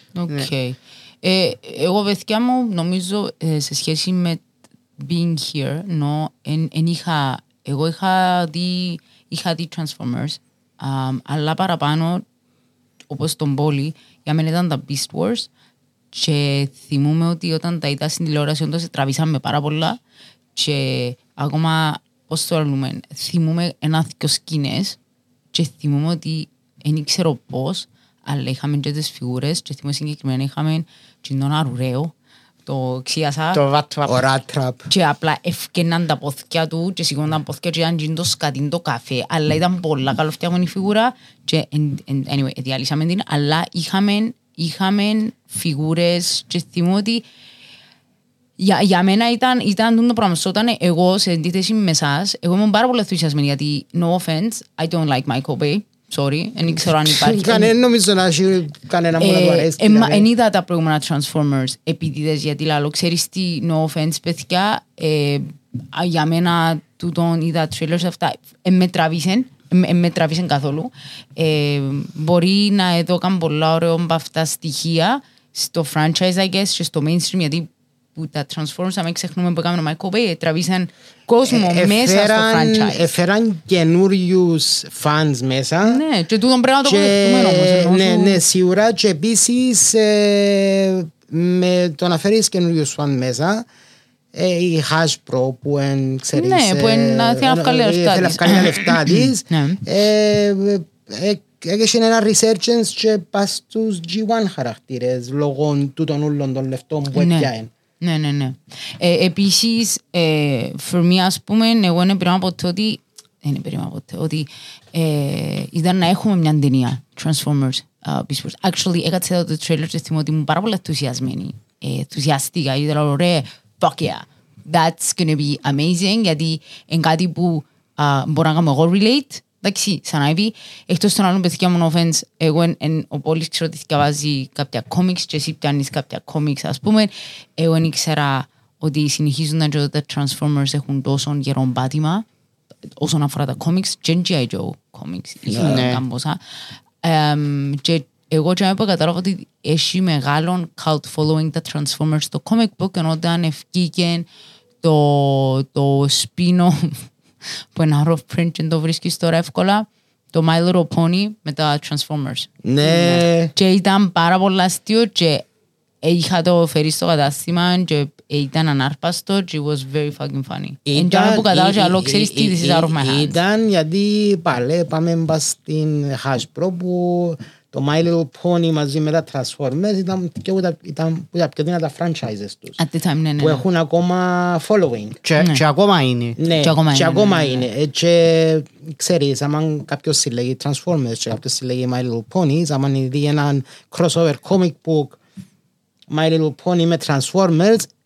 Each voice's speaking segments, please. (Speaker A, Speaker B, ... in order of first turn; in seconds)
Speaker A: 0.2-4.4, 5.0-12.2, 13.1-15.5, 16.1-20.0, 20.5-25.0, 25.5-32.1, 32.6-33.6, 34.9-47.2, 48.6-57.7, 59.2-83.1, 85.8-88.4, 96.3-99.8, 107.1-107.5, 108.0-142.2, 143.0-146.4, 147.0-154.3, 154.8-157.1, 157.7-165.5, 166.0-173.4, 182.8-183.6, 186.6-187.6
Speaker B: 33.5-34.3, 145.6-146.0, 185.2-186.4
Speaker C: 34.0-34.9, 56.7-60.2, 81.5-86.0, 86.8-93.7, 94.3-107.7, 145.5-145.8, 162.6-163.5, 170.9-182.8, 183.4-185.2, 186.4-195.2, 196.1-197.9